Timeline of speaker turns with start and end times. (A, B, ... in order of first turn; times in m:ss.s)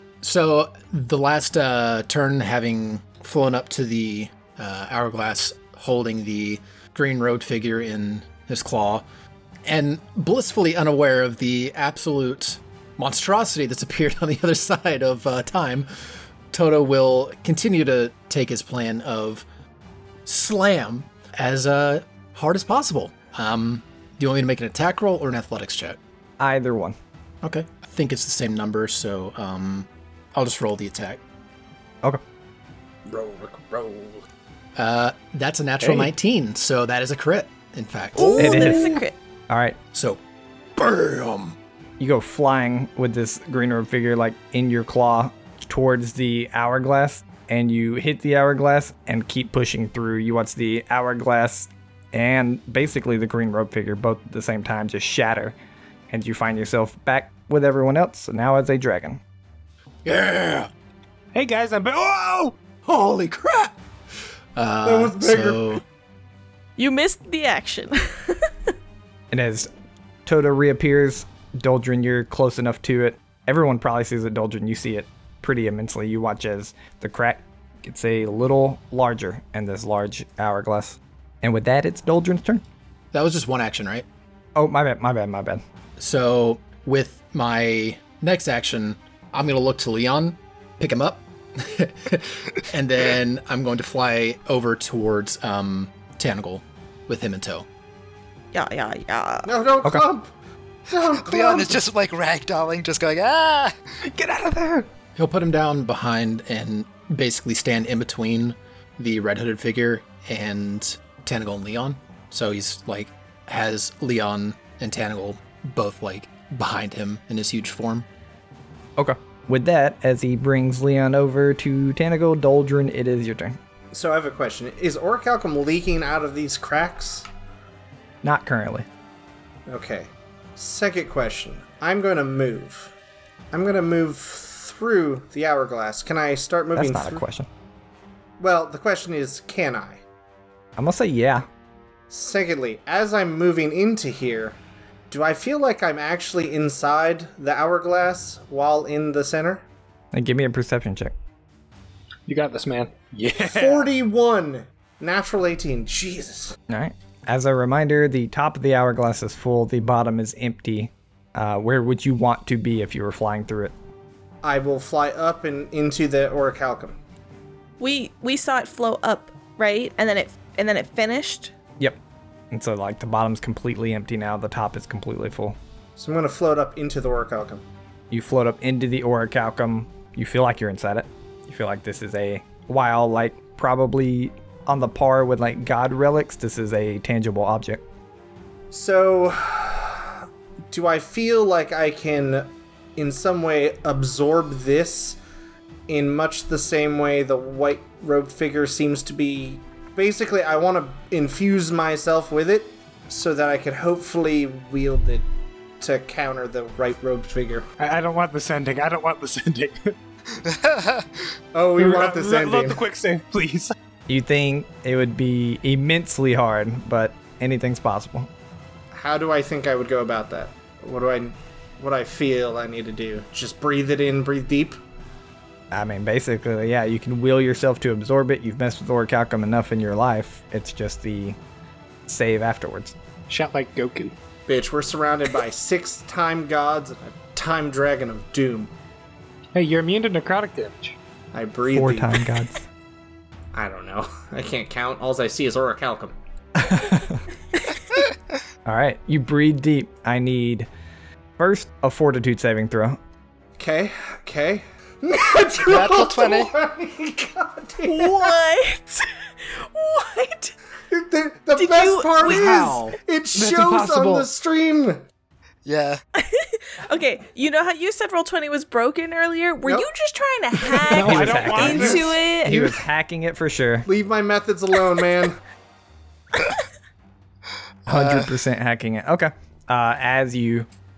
0:00.2-0:09.0 A
0:09.6-0:15.9 A
0:16.5-0:19.4 A
0:20.3-0:26.0 A
0:26.4-0:27.0 B
0:27.4-0:31.2 A
0:33.1-0:34.2 C
0:34.8-0:38.8 A
0:35.8-0:36.1 D
0:38.2-0:39.2 E
0:38.4-0:39.0 B
0:39.5-0:39.8 B
0:39.9-0:40.2 A
0:40.8-0:41.6 A
0:42.0-0:55.6 B
0:56.1-0:59.2 B
1:00.0-1:00.7 A
1:01.3-1:02.6 D
1:02.8-1:03.7 A
1:04.6-1:05.8 A
1:04.8-1:05.8 C
1:06.8-1:08.5 E
1:09.3-1:09.7 B
1:10.3-1:22.6 B
1:23.1-1:24.0 A
1:24.6-1:25.6 B
1:26.0-1:37.7 A
1:38.5-1:39.5 E
1:39.4-1:40.3 C
1:40.9-1:41.8 C
1:41.2-1:43.7 F
1:44.2-1:44.8 D
1:45.2-1:58.1 A
1:59.0-2:03.6 B
2:03.9-2:07.3 C
2:08.2-2:08.9 B
2:09.7-2:12.9 C
2:13.5-2:17.2 C
2:16.8-2:17.5 B
2:18.4-2:20.0 C
2:20.8-2:21.5 B
2:22.1-2:24.6 C
2:25.1-2:29.6 C
2:30.1-2:31.2 B
2:32.3-2:33.9 D
2:33.4-2:36.6 C
2:36.7-2:43.7 B
2:44.4-2:47.0 C
2:47.8-2:51.5 E
2:52.5-2:55.6 B
2:56.0-2:57.6 C
2:58.1-3:07.8 B
3:08.7-3:10.1 C
3:10.7-3:15.2 C
3:15.9-3:25.2 C
3:25.8-3:27.7 C
3:27.8-3:30.0 D
3:30.4-3:31.1 F
3:31.5-3:32.8 C
3:31.8-3:33.7 D
3:34.1-3:38.3 B
3:38.9-3:44.8 C
3:45.7-3:51.4 B
3:52.1-3:53.0 B
3:53.3-3:54.2 D
3:54.5-3:58.7 C
3:59.6-4:01.0 D
4:01.3-4:02.2 C
4:01.7-4:02.6 B
4:03.5-4:06.2 C
4:06.6-4:07.2 B
4:08.6-4:10.7 B
4:11.4-4:13.0 B
4:13.6-4:18.4 C
4:15.6-4:16.5 F
4:17.9-4:20.5 E
4:20.9-4:25.0 C
4:21.6-4:22.8 E
4:22.2-4:24.3 D
4:25.6-4:26.0 F
4:26.2-4:32.8 E
4:30.9-4:32.2 D
4:31.0-4:33.9 B
4:31.6-4:32.0 C
4:33.9-4:35.4 C
4:37.9-4:40.7 B
4:37.9-4:38.3 F